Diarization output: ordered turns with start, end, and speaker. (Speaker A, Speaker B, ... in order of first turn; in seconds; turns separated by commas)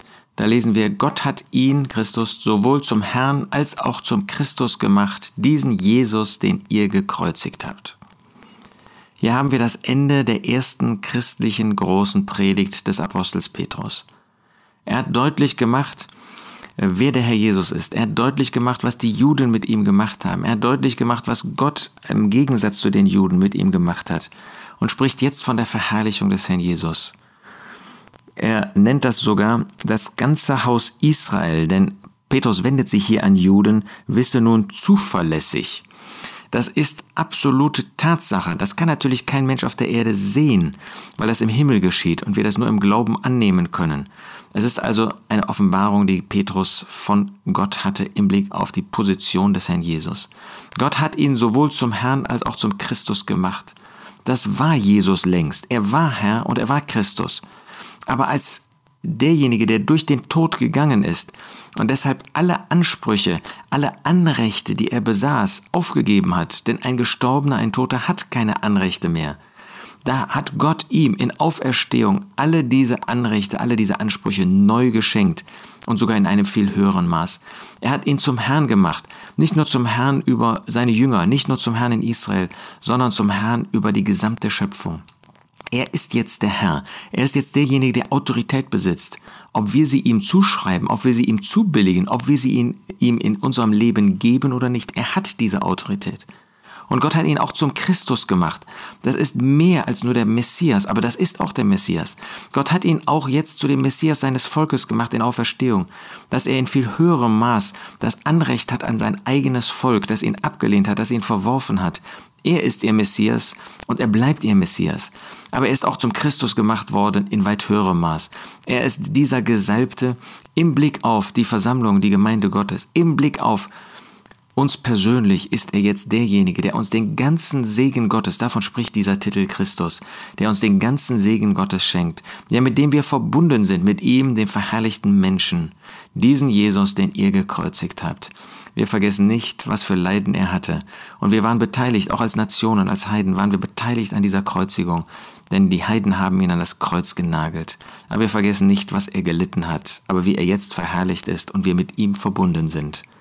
Speaker A: 0.4-8.0, Speaker A: 9.2-14.1, Speaker A: 14.8-16.1, Speaker A: 16.8-27.1, Speaker A: 28.4-35.8, Speaker A: 36.5-57.4, Speaker A: 58.1-69.4, Speaker A: 70.0-85.0, Speaker A: 85.7-96.3, Speaker A: 96.9-123.7, Speaker A: 124.5-153.0